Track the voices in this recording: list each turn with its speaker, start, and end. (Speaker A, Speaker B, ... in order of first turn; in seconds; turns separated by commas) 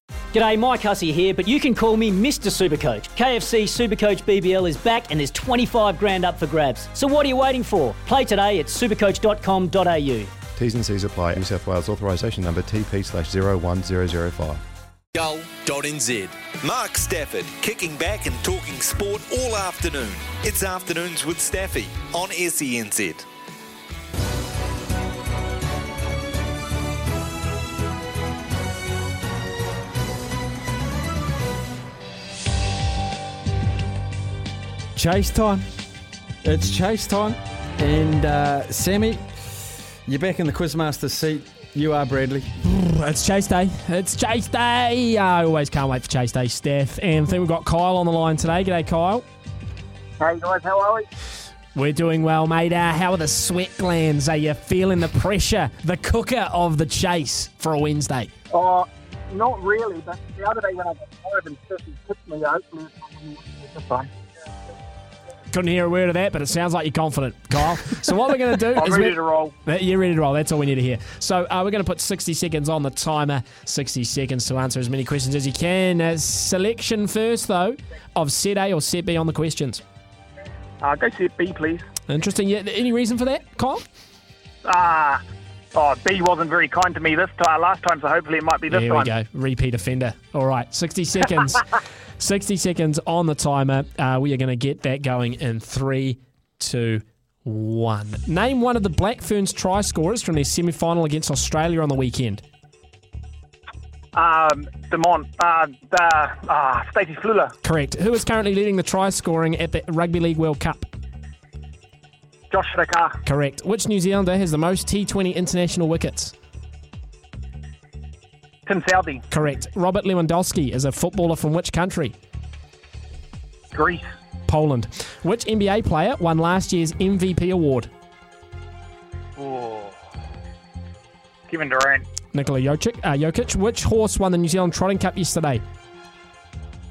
Speaker A: 0.3-10.3, Speaker B: 10.5-14.6, Speaker C: 15.1-23.2, Speaker D: 35.0-35.6, Speaker D: 36.4-39.2, Speaker D: 40.0-42.5, Speaker E: 42.6-49.2, Speaker F: 50.2-51.1, Speaker E: 51.7-58.3, Speaker F: 58.5-64.1, Speaker E: 65.5-79.8, Speaker F: 68.7-69.5, Speaker F: 80.8-81.8, Speaker E: 82.1-83.8, Speaker F: 84.6-85.2, Speaker F: 85.7-89.1, Speaker E: 88.7-102.4, Speaker F: 104.1-107.5, Speaker E: 107.6-110.9, Speaker F: 112.5-113.2, Speaker E: 113.2-116.3, Speaker F: 118.7-119.2, Speaker E: 119.3-122.1, Speaker F: 123.7-124.0, Speaker E: 124.5-127.9, Speaker F: 129.4-129.9, Speaker F: 131.5-132.1, Speaker E: 132.3-135.6